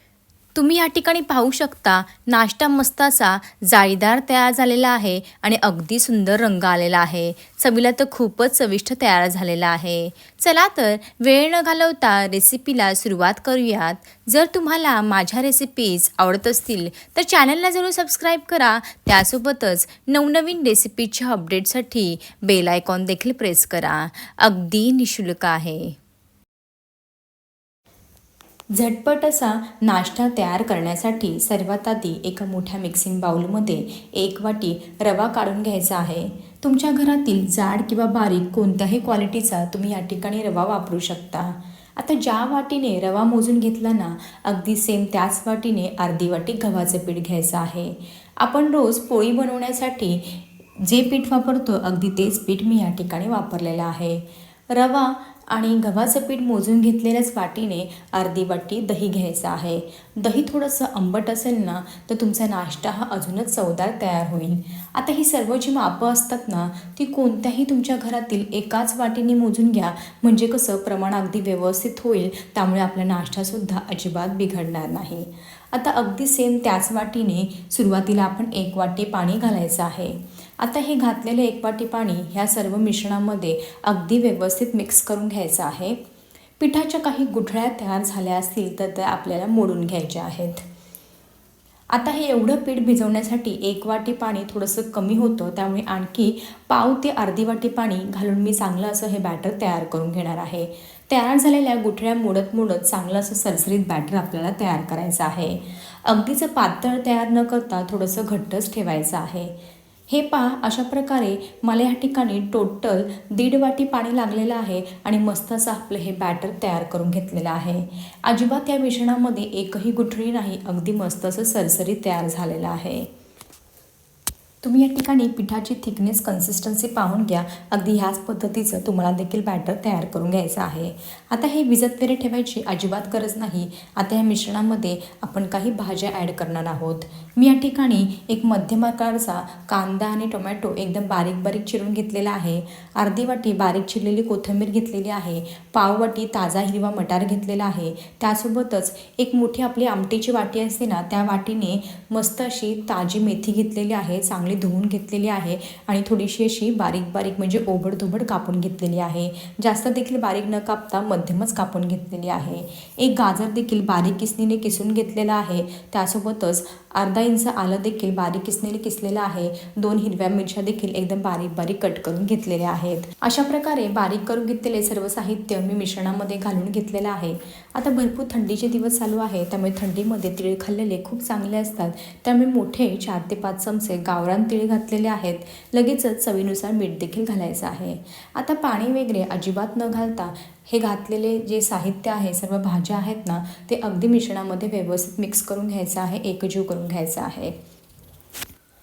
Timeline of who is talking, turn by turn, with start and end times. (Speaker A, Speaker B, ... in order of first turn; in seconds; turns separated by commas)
Speaker A: 0.6-26.0, Speaker A: 28.7-86.0, Speaker A: 86.6-90.6, Speaker A: 91.9-109.5, Speaker A: 110.1-123.1, Speaker A: 124.6-197.6